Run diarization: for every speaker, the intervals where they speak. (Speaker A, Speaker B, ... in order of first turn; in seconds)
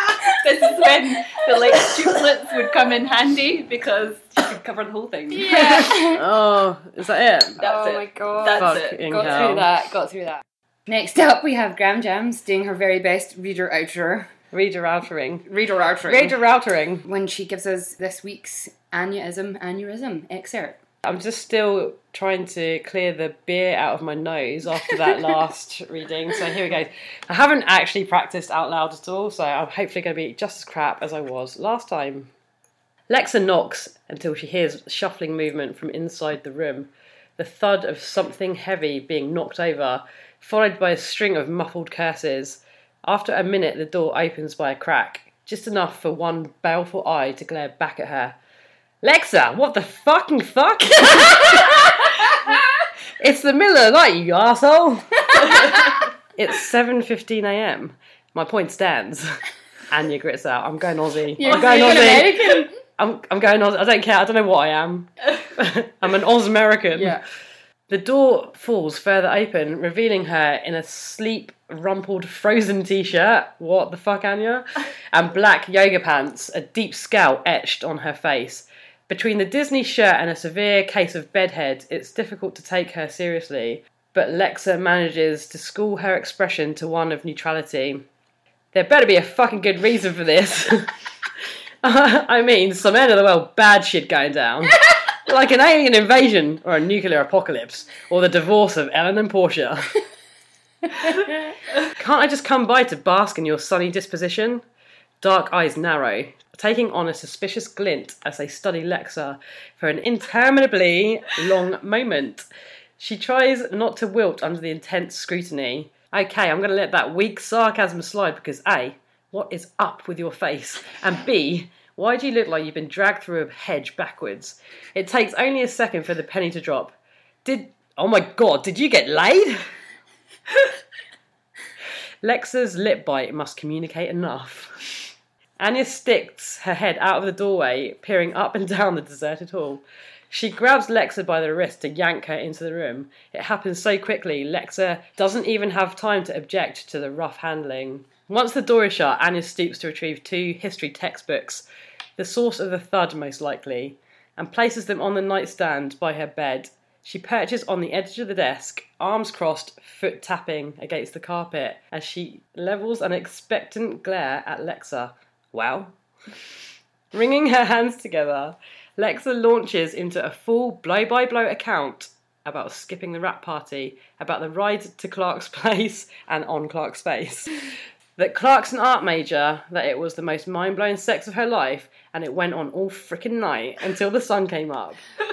Speaker A: 0.4-5.8, 7.6-9.4
Speaker B: 5.3-6.2, 7.6-14.3, 15.4-16.4, 17.1-20.8, 61.4-62.7, 67.0-67.2
Speaker C: 5.5-7.6, 8.5-9.7, 14.5-15.4, 16.1-17.1, 21.0-32.3, 33.1-48.4, 49.0-52.2, 53.2-67.2, 67.9-88.1, 88.7-90.9, 91.8-100.0, 101.8-104.6, 105.2-112.5, 113.0-129.6, 132.2-134.8, 135.6-151.6, 152.2-165.9, 167.1-185.0